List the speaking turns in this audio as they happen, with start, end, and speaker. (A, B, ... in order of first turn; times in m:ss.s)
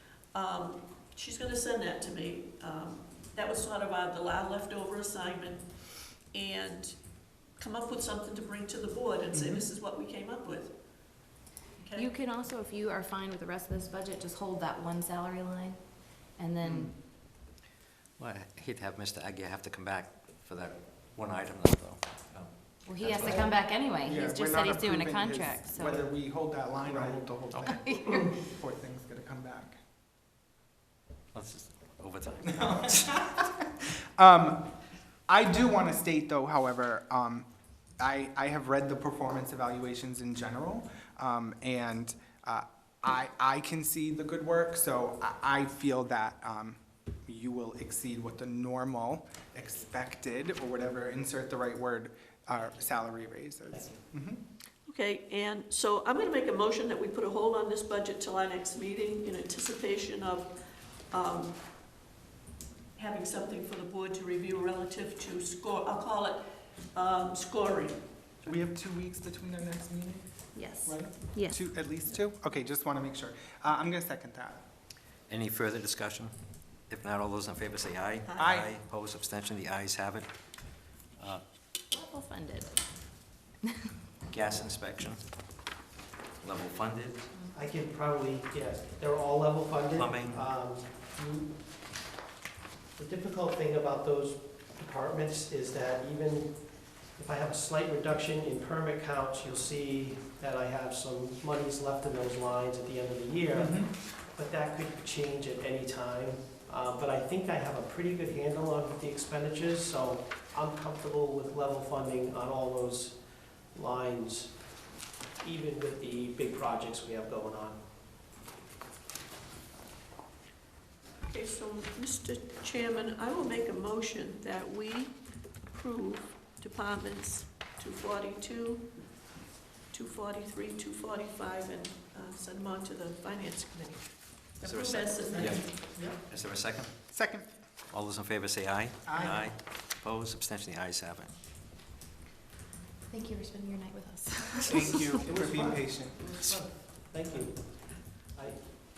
0:00.3-0:05.7 A
0:06.3-0:07.0 A
0:07.6-0:10.8 A
0:09.3-0:09.6 B
0:11.8-0:12.1 A
0:11.9-0:17.0 C
0:16.6-0:16.9 B
0:18.2-0:23.5 D
0:22.8-0:26.0 C
0:23.0-0:29.8 B
0:26.9-0:27.2 E
0:27.6-0:28.1 C
0:31.3-0:33.1 D
0:32.5-0:34.7 B
0:35.3-0:37.5 B
0:38.0-0:54.4 B
0:53.7-0:54.0 E
0:54.9-1:00.5 A
1:01.1-1:01.6 A
1:03.0-1:06.4 A
1:06.9-1:08.0 A
1:08.4-1:10.2 B
1:10.5-1:11.6 C
1:10.8-1:14.6 B
1:15.3-1:16.3 D
1:16.9-1:20.3 D
1:18.3-1:18.5 A
1:18.4-1:18.7 B
1:21.2-1:21.4 D
1:21.9-1:22.7 C
1:24.3-1:25.2 D
1:26.4-1:27.3 D
1:27.5-1:31.5 E
1:30.0-1:30.4 D
1:33.0-1:36.6 E
1:37.1-1:53.2 E
1:43.5-1:43.9 B
1:53.7-1:54.5 E
1:55.4-1:57.8 E
2:01.2-2:05.2 A
2:05.7-2:08.9 A
2:09.9-2:14.1 A
2:14.6-2:15.7 A
2:14.6-2:16.9 D
2:15.3-2:16.2 E
2:17.1-2:17.5 B
2:17.9-2:21.3 D
2:19.0-2:19.4 B
2:23.1-2:25.2 C
2:24.6-2:26.4 B
2:25.2-2:27.8 E